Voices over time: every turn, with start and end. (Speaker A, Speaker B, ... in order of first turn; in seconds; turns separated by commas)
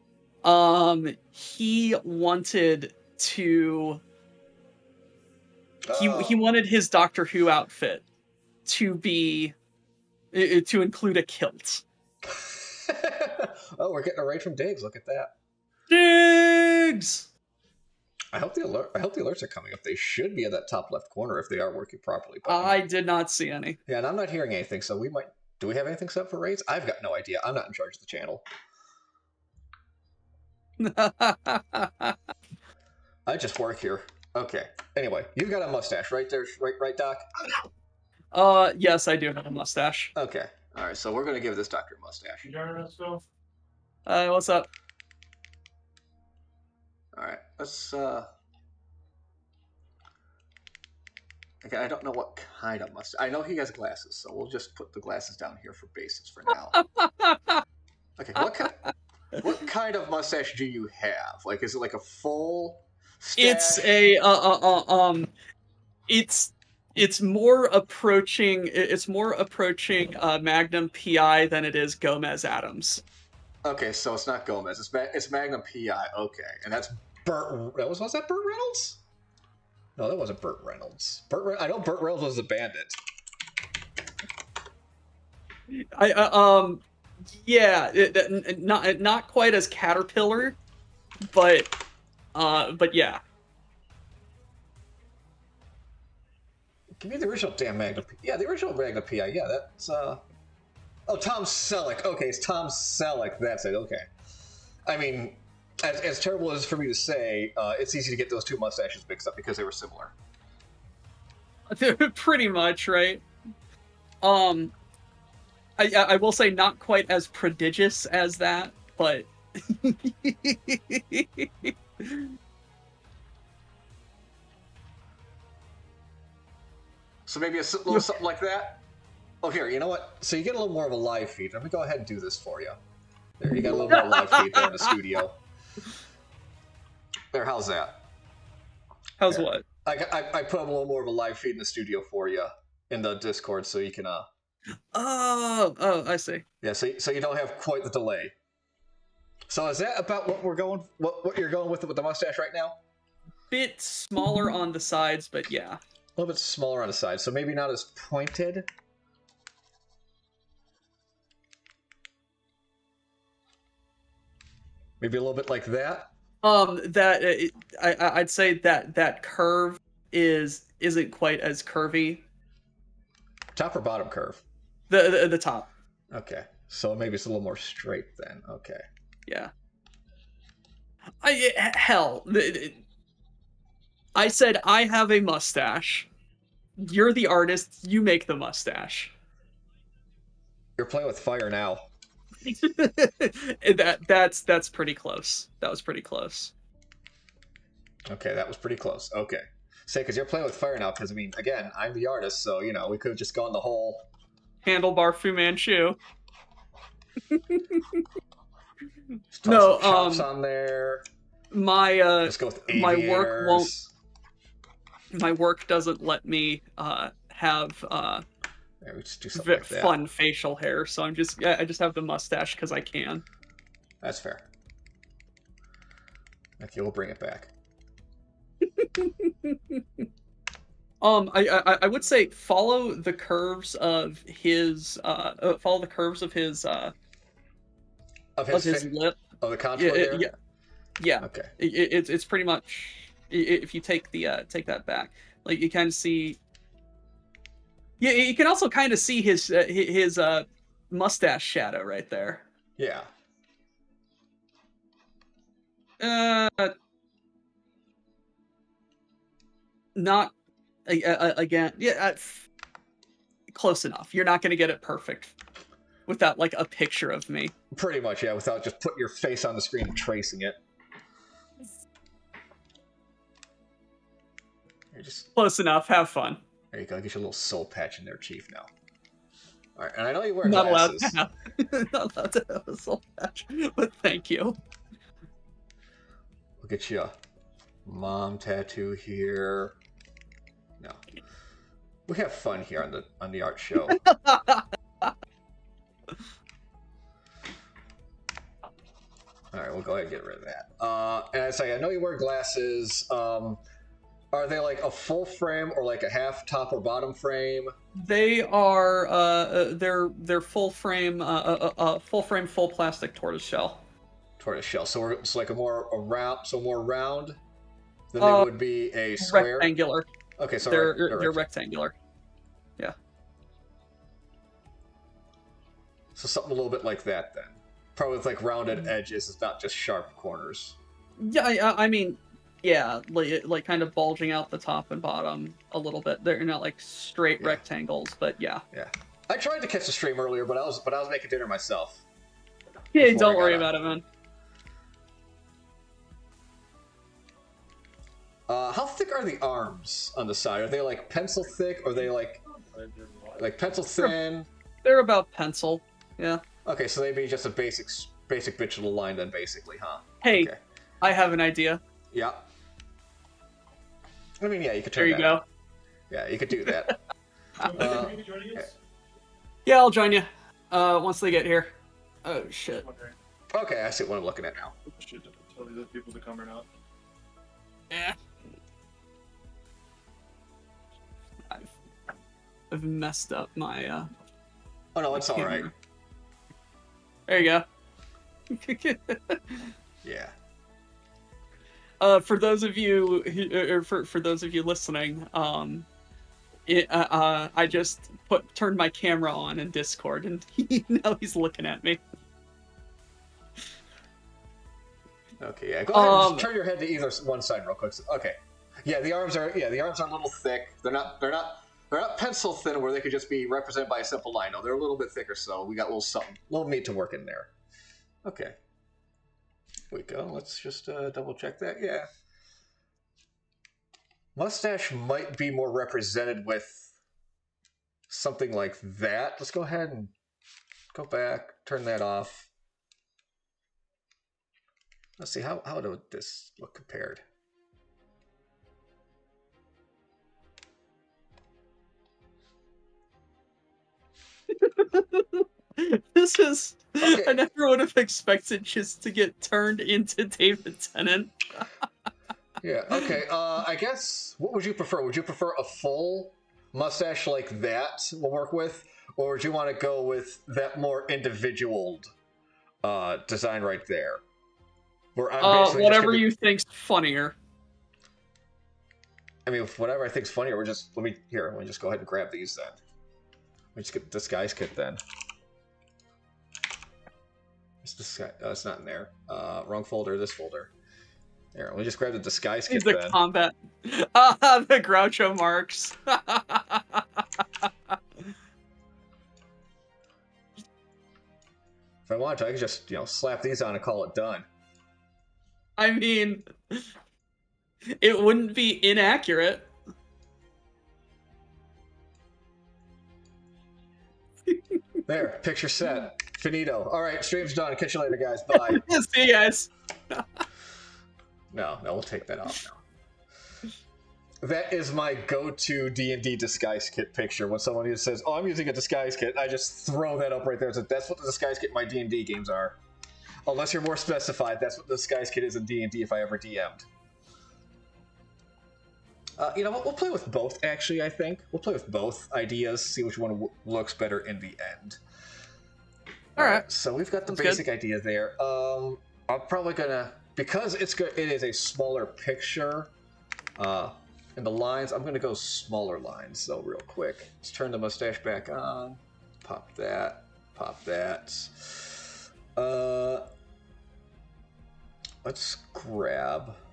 Speaker A: 0.4-4.0, Speaker B: 5.8-6.4, Speaker A: 5.9-8.0, Speaker A: 8.6-9.6, Speaker A: 10.3-11.8, Speaker B: 12.2-15.3, Speaker A: 15.9-17.3, Speaker B: 18.3-22.8, Speaker A: 22.4-23.8, Speaker B: 23.9-28.4, Speaker A: 30.8-32.2, Speaker B: 33.3-37.6, Speaker A: 38.3-40.1, Speaker B: 40.1-42.6, Speaker C: 42.6-43.2, Speaker A: 44.1-44.7, Speaker B: 47.1-48.3, Speaker B: 51.6-56.8, Speaker A: 56.7-57.6, Speaker B: 58.2-64.0, Speaker A: 63.4-65.3, Speaker A: 66.1-73.0, Speaker B: 73.6-79.0, Speaker B: 80.0-83.0, Speaker A: 85.7-90.6, Speaker A: 91.3-91.7, Speaker A: 92.3-93.2, Speaker B: 97.0-100.2, Speaker B: 101.1-104.1, Speaker B: 104.9-110.1, Speaker A: 111.7-113.2, Speaker A: 114.2-114.7, Speaker A: 115.8-122.3, Speaker B: 127.3-128.8, Speaker B: 129.4-132.8, Speaker B: 133.4-135.4, Speaker A: 133.8-134.9, Speaker B: 137.3-138.0, Speaker A: 139.2-139.6, Speaker B: 139.3-144.3, Speaker A: 144.9-146.4, Speaker B: 146.6-148.3, Speaker B: 149.5-152.8, Speaker A: 153.5-155.8, Speaker B: 156.2-158.7, Speaker B: 165.0-166.1, Speaker A: 166.4-172.2, Speaker B: 173.5-174.4, Speaker A: 174.9-175.7, Speaker B: 176.1-178.8, Speaker A: 179.3-179.5, Speaker A: 181.2-182.8, Speaker A: 184.1-186.1, Speaker A: 186.8-189.1, Speaker B: 190.8-191.8, Speaker A: 192.4-196.5, Speaker B: 198.1-204.1, Speaker A: 204.6-206.0, Speaker A: 207.3-208.0, Speaker B: 209.3-211.1, Speaker A: 209.4-210.3, Speaker A: 211.5-213.7, Speaker B: 212.3-213.9, Speaker A: 215.1-218.2, Speaker B: 218.8-220.0, Speaker A: 219.3-223.2, Speaker B: 224.0-224.5, Speaker B: 226.6-227.5, Speaker A: 228.8-230.0, Speaker A: 231.0-236.9, Speaker B: 238.4-240.3, Speaker A: 238.5-239.2, Speaker A: 239.8-240.3, Speaker A: 241.0-246.4, Speaker B: 241.2-241.5, Speaker A: 248.0-252.4, Speaker B: 252.8-253.1, Speaker A: 256.0-256.8, Speaker A: 259.9-260.3, Speaker A: 260.9-262.5, Speaker A: 263.5-265.4, Speaker A: 266.1-267.5, Speaker B: 267.7-270.6, Speaker B: 274.9-275.3, Speaker A: 275.4-276.4, Speaker B: 276.7-278.7, Speaker B: 279.8-281.2, Speaker A: 280.4-284.6, Speaker B: 286.6-287.1, Speaker B: 287.9-289.8, Speaker B: 292.1-294.0, Speaker A: 294.0-294.6, Speaker B: 299.5-303.6, Speaker B: 304.3-307.7, Speaker A: 307.9-313.8, Speaker B: 314.4-317.4, Speaker B: 318.1-319.8, Speaker A: 318.2-318.5, Speaker A: 319.2-320.1, Speaker B: 320.4-321.4, Speaker A: 320.6-321.9, Speaker B: 326.1-330.8, Speaker A: 331.2-338.6, Speaker B: 338.7-342.0, Speaker A: 342.9-344.0, Speaker B: 343.0-343.7, Speaker B: 348.5-352.4, Speaker C: 352.7-353.4, Speaker B: 353.4-354.5, Speaker A: 354.8-356.4, Speaker B: 356.6-360.6, Speaker A: 360.2-361.8, Speaker B: 362.1-362.5, Speaker B: 364.4-365.4, Speaker A: 365.0-365.4, Speaker B: 366.1-366.9, Speaker A: 366.6-366.9, Speaker A: 367.6-367.9, Speaker B: 367.6-368.7, Speaker C: 367.8-368.6, Speaker A: 369.6-372.9, Speaker C: 372.9-373.1, Speaker B: 373.5-374.8, Speaker C: 375.0-376.7, Speaker A: 377.9-378.2, Speaker A: 381.5-381.8, Speaker A: 382.7-384.1, Speaker B: 384.9-385.7, Speaker A: 385.2-385.7, Speaker A: 387.3-387.6, Speaker A: 388.5-389.7, Speaker B: 390.0-390.3, Speaker A: 392.0-395.9, Speaker A: 396.6-402.0, Speaker B: 405.4-417.5, Speaker A: 405.9-406.5, Speaker B: 418.2-418.6, Speaker B: 419.9-422.1, Speaker B: 424.4-426.9, Speaker B: 428.1-430.1, Speaker B: 430.9-432.5, Speaker B: 435.2-437.2, Speaker A: 444.5-451.7, Speaker B: 447.0-447.4, Speaker B: 452.6-462.1, Speaker B: 462.8-464.2, Speaker B: 465.1-466.3, Speaker A: 465.4-467.4, Speaker B: 469.5-472.8, Speaker B: 473.8-475.0, Speaker B: 477.8-480.7, Speaker B: 481.5-483.2, Speaker A: 482.7-488.0, Speaker B: 492.1-494.5, Speaker A: 495.8-496.9, Speaker A: 497.9-499.7, Speaker A: 504.5-504.8, Speaker B: 505.1-508.9, Speaker A: 508.5-510.4, Speaker B: 511.5-512.8, Speaker B: 514.4-522.8, Speaker B: 523.5-526.9, Speaker B: 529.4-535.0, Speaker B: 536.4-542.9, Speaker A: 536.4-536.6, Speaker A: 537.3-537.6, Speaker B: 543.6-553.3, Speaker B: 555.2-556.6